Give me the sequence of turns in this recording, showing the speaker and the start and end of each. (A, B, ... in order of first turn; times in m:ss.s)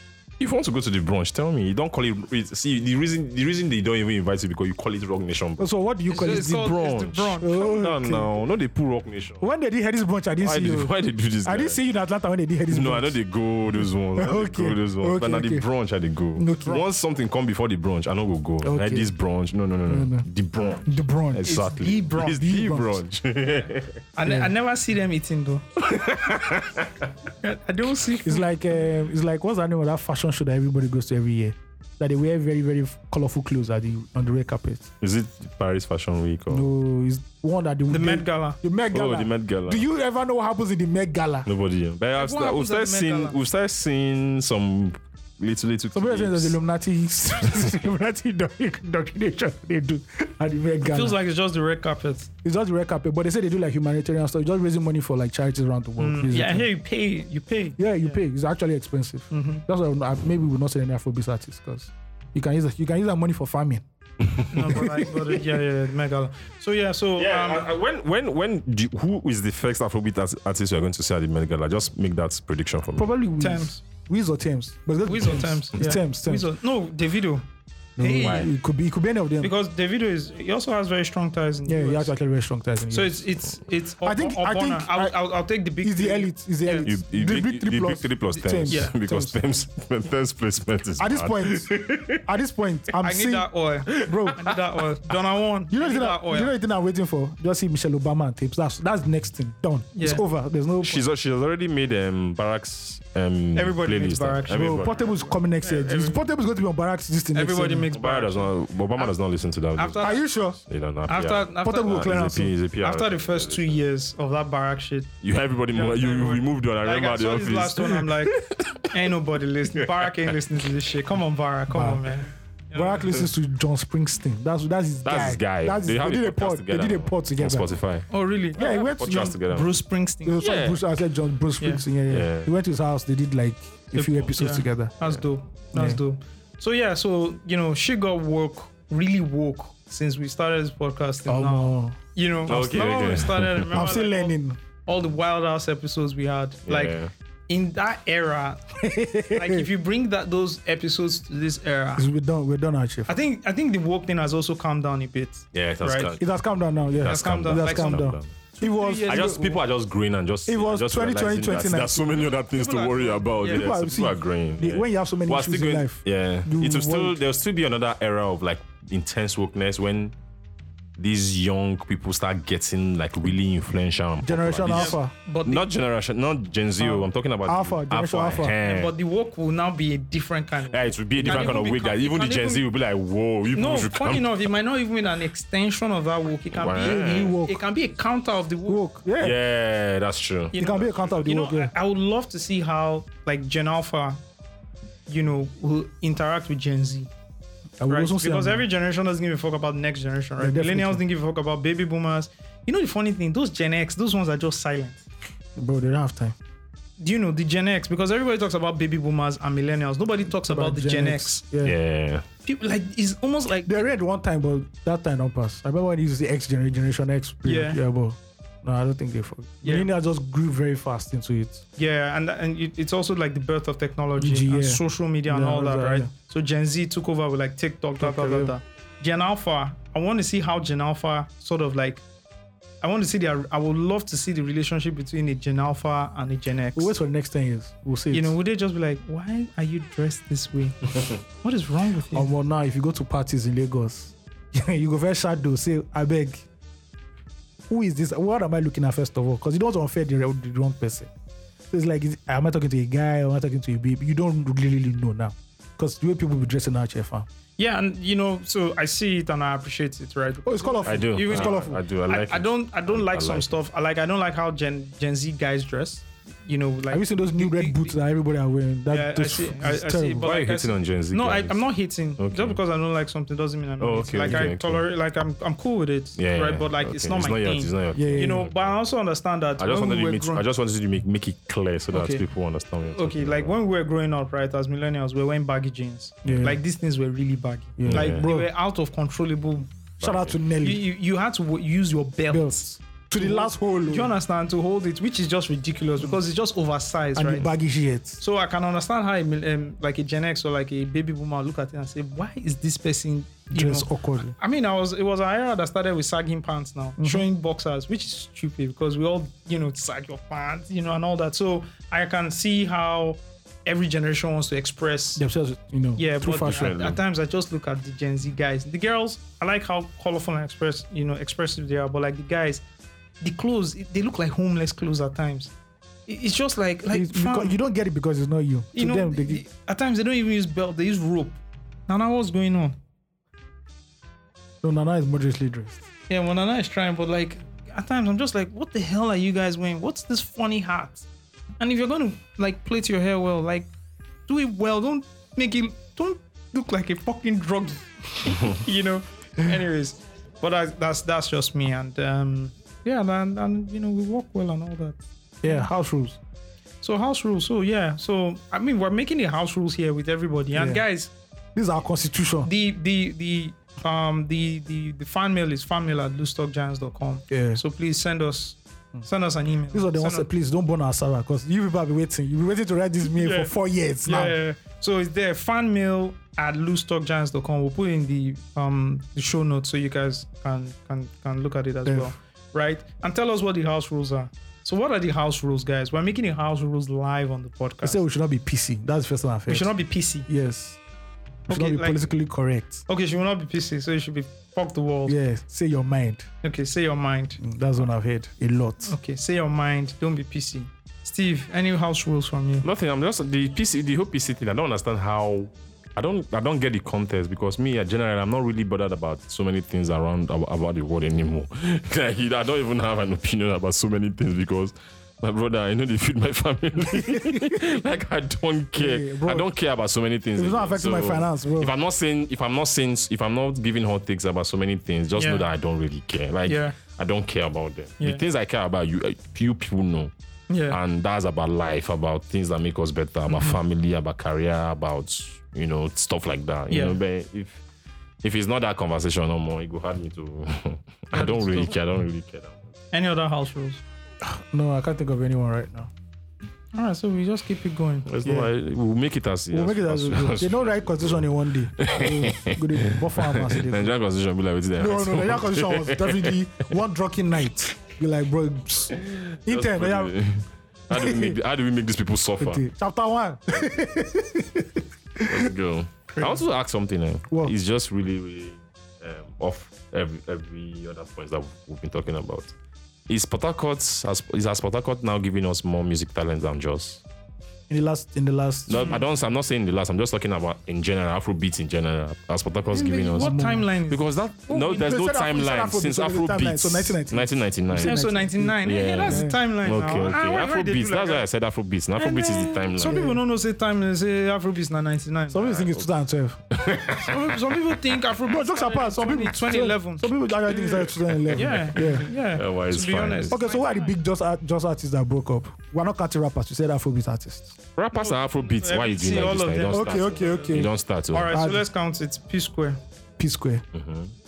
0:00.4-0:09.4 A
0:05.6-0:06.7 B
0:06.1-0:07.8 C
0:07.4-0:08.3 B
0:09.4-0:10.9 B
0:10.4-0:11.8 A
0:11.4-0:13.2 B
0:12.7-0:24.0 A
0:13.7-0:15.7 B
0:16.4-0:16.8 B
0:18.6-0:19.1 B
0:19.9-0:20.3 B
0:20.8-0:21.5 B
0:21.4-0:22.4 C
0:22.2-0:23.0 B
0:24.2-0:25.7 C
0:24.2-0:24.5 B
0:25.8-0:27.0 A
0:27.4-0:28.4 C
0:28.2-0:34.9 B
0:35.0-0:36.7 A
0:36.5-0:41.5 B
0:37.9-0:38.6 C
0:38.9-0:39.8 A
0:41.4-0:46.6 A
0:42.2-0:43.4 C
0:45.9-0:51.2 B
0:50.8-0:52.3 C
0:52.4-0:56.7 B
0:56.0-0:58.2 C
0:57.8-1:03.8 B
0:59.3-0:59.6 C
1:04.2-1:04.5 A
1:04.5-1:07.7 C
1:04.6-1:05.1 B
1:07.2-1:13.1 A
1:13.0-1:16.5 B
1:13.4-1:13.8 C
1:15.0-1:17.4 C
1:18.0-1:19.5 B
1:18.0-1:18.5 C
1:18.2-1:18.5 A
1:19.4-1:22.1 C
1:21.6-1:23.3 B
1:22.9-1:26.9 C
1:24.0-1:25.2 B
1:25.8-1:29.4 B
1:26.8-1:32.2 A
1:28.7-1:28.9 C
1:31.0-1:34.4 B
1:33.0-1:36.5 C
1:34.0-1:34.3 A
1:35.7-1:41.0 B
1:39.9-1:40.2 C
1:40.8-1:45.2 A
1:43.5-1:46.2 C
1:44.5-1:47.9 B
1:47.3-1:49.1 C
1:47.9-1:53.8 A
1:49.8-1:50.2 C
1:50.0-1:50.6 B
1:51.1-1:52.1 C
1:51.6-1:52.5 B
1:52.8-1:55.1 C
1:55.2-1:58.8 A
1:55.7-1:58.4 C
1:58.9-2:03.3 C
1:59.8-2:00.3 A
2:01.7-2:02.0 B
2:02.7-2:07.7 B
2:05.0-2:09.8 A
2:08.1-2:10.4 C
2:08.5-2:09.4 B
2:10.2-2:14.9 B
2:10.4-2:10.8 A
2:12.1-2:12.5 A
2:13.9-2:28.6 C
2:15.7-2:16.0 B
2:21.3-2:22.0 B
2:22.5-2:23.9 A
2:23.7-2:24.6 B
2:26.7-2:27.1 A
2:28.8-2:29.7 B
2:29.3-2:32.1 C
2:32.0-2:33.1 B
2:33.1-2:36.1 C
2:35.5-2:36.2 A
2:36.2-2:39.4 B
2:36.9-2:38.3 A
2:37.0-2:39.6 C
2:39.1-2:50.1 A
2:40.5-2:42.2 B
2:42.3-2:43.7 C
2:43.4-2:47.2 B
2:51.0-2:58.9 A
2:54.2-2:55.1 B
2:54.7-2:55.6 C
2:56.8-2:58.6 B
2:58.6-3:02.6 C
3:00.7-3:04.4 A
3:01.2-3:01.6 B
3:03.5-3:08.8 C
3:06.5-3:07.4 A
3:06.8-3:07.6 B
3:08.7-3:09.4 B
3:09.2-3:10.7 A
3:10.5-3:14.2 C
3:10.6-3:11.7 B
3:15.1-3:17.1 C
3:17.8-3:18.6 B
3:17.9-3:25.0 C
3:20.4-3:21.0 B
3:25.6-3:26.4 B
3:27.0-3:31.4 C
3:30.3-3:31.8 B
3:31.6-3:32.2 A
3:32.4-3:33.7 C
3:33.6-3:41.6 B
3:37.4-3:37.8 C
3:39.6-3:39.9 C
3:41.8-3:52.0 C
3:44.2-3:46.1 B
3:48.0-3:48.5 B
3:52.8-3:56.9 C
3:56.7-3:58.4 B
3:58.1-4:02.3 C
4:02.1-4:06.4 B
4:07.7-4:11.1 B
4:11.7-4:17.3 B
4:17.6-4:27.9 C
4:20.4-4:21.8 B
4:20.8-4:23.5 A
4:26.9-4:30.2 B
4:28.9-4:40.4 C
4:30.2-4:32.6 A
4:33.8-4:34.8 A
4:34.2-4:34.5 B
4:36.2-4:38.7 A
4:37.9-4:38.5 B
4:39.6-4:43.6 A
4:41.9-4:42.2 B
4:42.9-4:49.7 C
4:46.2-4:46.6 B
4:47.8-4:48.5 B
4:47.8-4:48.2 A
4:50.0-4:50.3 A
4:50.0-4:50.8 B
4:50.6-4:52.6 C
4:52.3-4:54.1 B
4:53.2-4:57.5 C
4:57.2-4:58.2 B
4:58.2-5:15.2 C
5:03.5-5:04.3 B
5:07.0-5:07.2 B
5:15.2-5:16.7 B
5:16.0-5:22.6 C
5:16.2-5:17.0 A
5:23.2-5:25.5 C
5:26.1-5:27.6 C
5:26.9-5:29.4 B
5:28.7-5:32.8 C
5:34.6-5:35.8 B
5:36.1-5:41.0 C
5:41.6-5:43.7 C
5:44.3-5:55.7 C
5:55.4-5:56.2 B
5:56.8-6:01.1 C
6:00.5-6:00.8 B
6:01.5-6:02.5 B
6:02.4-6:10.3 C
6:07.3-6:07.6 B
6:09.7-6:14.3 B
6:13.0-6:13.5 C
6:14.0-6:28.0 C
6:21.8-6:22.1 B
6:27.8-6:29.7 B
6:29.5-6:30.3 C
6:30.3-6:30.8 B
6:31.5-6:32.1 C
6:31.5-6:32.8 B
6:32.9-6:35.2 C
6:35.0-6:36.3 B
6:36.4-6:37.4 C
6:37.4-6:38.9 B
6:38.8-6:42.6 C
6:42.6-7:10.1 A
6:56.9-6:57.6 B
6:58.7-6:59.5 B
7:00.4-7:01.7 B
7:05.2-7:05.5 C
7:06.4-7:06.8 C
7:10.5-7:10.8 C
7:10.7-7:17.6 A
7:13.3-7:13.6 C
7:16.7-7:17.0 C
7:18.2-7:22.7 A
7:21.1-7:21.7 C
7:22.9-7:23.8 C
7:24.2-7:25.9 B
7:26.7-7:28.1 C
7:28.0-7:36.4 A
7:28.2-7:28.5 B
7:29.5-7:33.9 B
7:34.8-7:40.1 B
7:38.9-7:42.6 A
7:40.9-7:41.4 B
7:42.4-7:45.5 B
7:45.2-7:52.5 A
7:53.1-7:57.0 A
7:57.7-7:59.0 B
7:58.7-8:08.1 A
7:58.8-7:59.0 C
8:02.7-8:04.0 C
8:03.1-8:03.7 B
8:04.5-8:09.4 B
8:07.7-8:11.2 C
8:08.6-8:13.0 A
8:12.0-8:15.7 C
8:12.8-8:13.2 B
8:15.3-8:16.4 B
8:16.5-8:17.4 A
8:17.0-8:20.1 C
8:18.2-8:22.1 B
8:20.5-8:23.4 A
8:21.3-8:23.9 C
8:23.3-8:27.6 B
8:27.8-8:31.3 A
8:27.9-8:32.8 C
8:29.7-8:30.7 B
8:31.3-8:31.6 B
8:33.2-8:33.6 B
8:33.7-8:34.1 A